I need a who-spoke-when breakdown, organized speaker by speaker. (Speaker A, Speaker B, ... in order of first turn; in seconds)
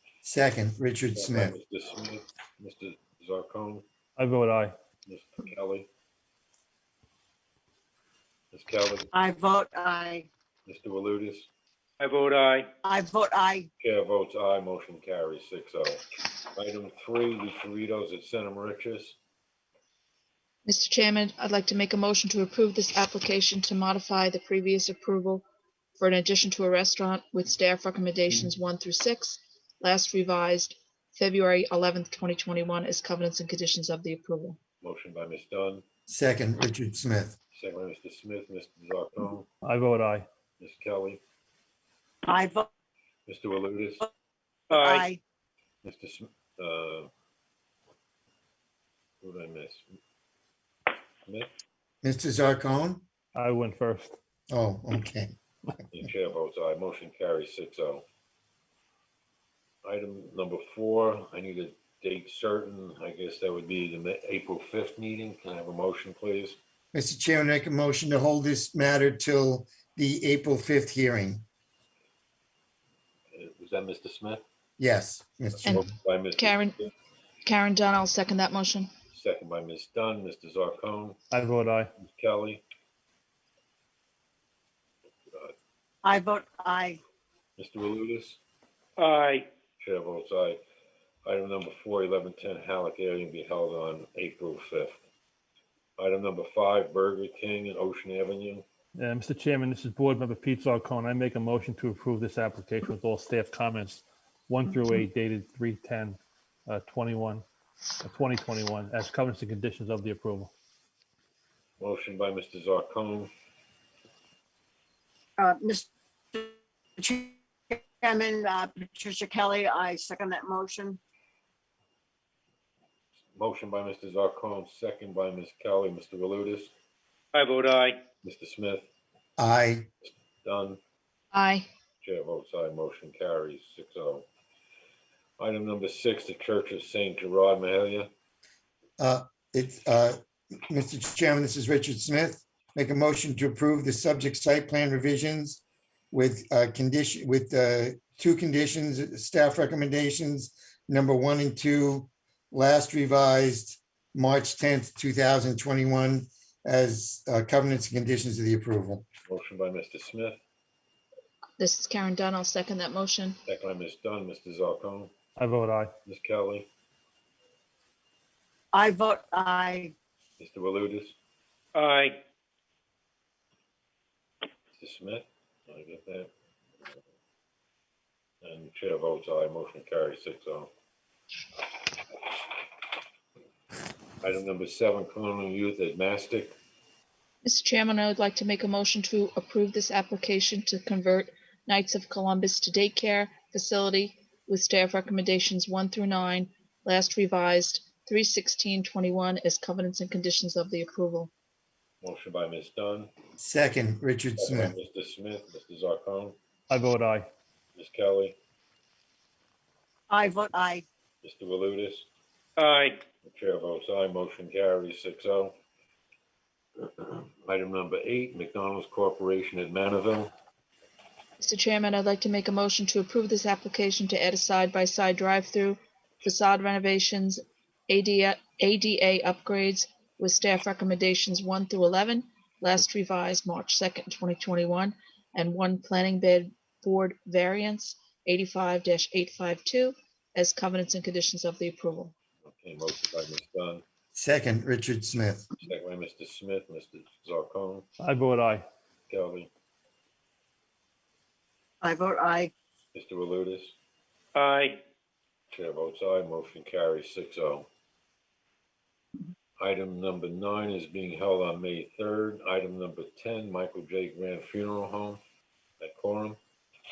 Speaker A: 0.2-1.6, 36.1-37.4, 52.0-53.0, 54.5-55.3, 66.9-71.4, 74.8-75.8, 129.4-129.9, 139.0-159.0, 203.4-204.7, 244.1-245.5
Speaker B: 1.1-3.8, 5.0-5.9, 8.5-9.1, 10.7-11.5, 13.8-16.0, 16.5-19.2, 34.8-35.8, 37.5-39.5, 40.6-41.2, 43.3-44.0, 45.8-47.1, 49.2-49.8, 55.9-58.0, 59.8-66.6, 73.3-74.4, 75.6-76.9, 79.1-81.2, 82.0-82.6, 87.6-88.4, 89.8-90.6, 91.2-95.1, 96.0-98.6, 111.8-113.3, 123.3-126.7, 128.2-128.9, 130.0-130.8, 132.0-134.3, 135.4-138.1, 159.3-160.4, 163.4-165.1, 166.0-166.7, 170.4-171.2, 174.7-176.3, 178.4-180.7, 184.2-186.6, 202.0-203.1, 204.4-206.3, 207.7-208.4, 211.2-212.1, 213.2-215.5, 216.8-220.3, 242.4-243.8, 245.6-247.8, 249.1-249.5, 252.9-253.7, 255.5-257.7, 259.6-265.2, 265.8-266.4
Speaker C: 4.2-4.7, 39.6-40.3, 53.3-54.2, 81.3-81.9, 98.9-107.4, 108.0-110.5, 165.3-165.9, 206.7-207.3, 248.0-248.7
Speaker D: 9.1-10.3, 12.8-13.7, 42.2-42.7, 44.7-45.2, 86.0-87.0, 115.4-121.0, 168.7-169.9, 210.1-210.8, 251.8-252.5
Speaker E: 12.0-12.6, 44.7-45.0, 89.0-89.4, 127.3-128.0, 171.7-172.1, 212.6-213.0, 254.3-254.8
Speaker F: 20.6-34.6, 75.7-76.8, 77.4-78.9, 131.3-131.7, 161.6-163.4, 187.4-201.3, 221.4-242.1